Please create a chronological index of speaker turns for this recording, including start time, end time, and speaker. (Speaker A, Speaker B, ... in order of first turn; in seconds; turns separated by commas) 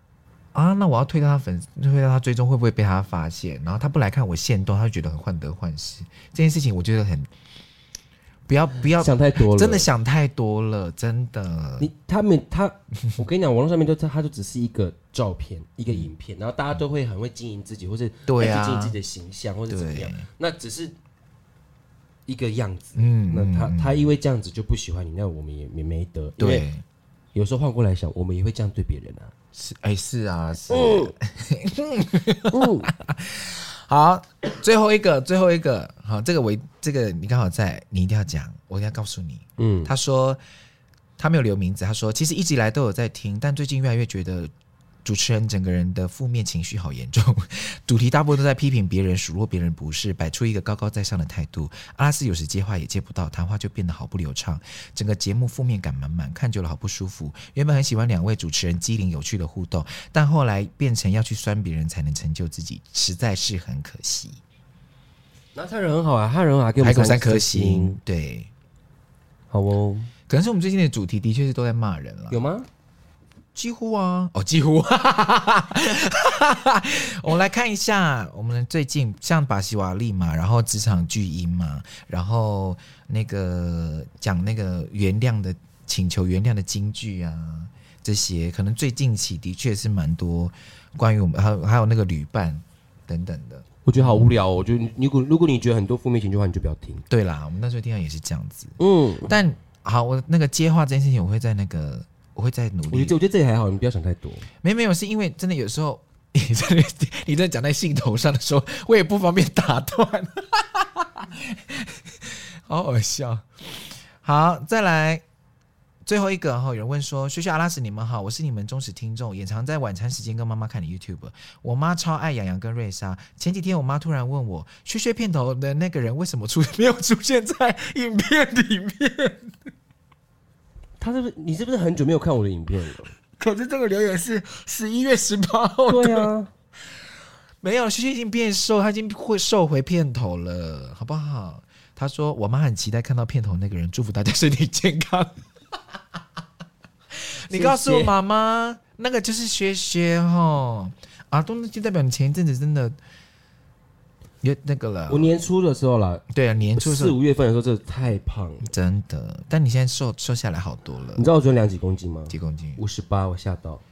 Speaker A: 0.5-7.3, Speaker A: 8.5-11.9, Speaker B: 9.0-9.9, Speaker B: 11.8-20.9, Speaker A: 18.3-18.9, Speaker A: 19.7-20.2, Speaker B: 22.2-26.6, Speaker A: 22.9-24.1, Speaker A: 26.4-26.8, Speaker B: 27.3-29.3, Speaker A: 29.5-40.4, Speaker B: 30.7-31.1, Speaker B: 32.5-32.9, Speaker B: 39.6-39.9, Speaker A: 41.2-44.5, Speaker A: 45.0-64.4, Speaker B: 65.5-68.0, Speaker A: 66.8-68.5, Speaker B: 69.5-70.1, Speaker A: 70.3-72.4, Speaker B: 72.3-72.7, Speaker A: 73.5-94.3, Speaker B: 93.8-97.0, Speaker A: 97.1-103.2, Speaker B: 98.8-99.3, Speaker B: 102.9-104.5, Speaker A: 104.6-115.2, Speaker A: 116.0-129.7, Speaker B: 131.0-133.1, Speaker A: 133.4-136.3, Speaker B: 135.9-136.5, Speaker A: 137.6-145.4, Speaker A: 147.4-153.0, Speaker B: 147.5-148.1, Speaker A: 154.4-155.3, Speaker B: 155.1-156.2, Speaker A: 156.3-157.1, Speaker B: 156.8-158.7, Speaker A: 158.6-161.3, Speaker B: 161.2-163.8, Speaker A: 162.3-162.8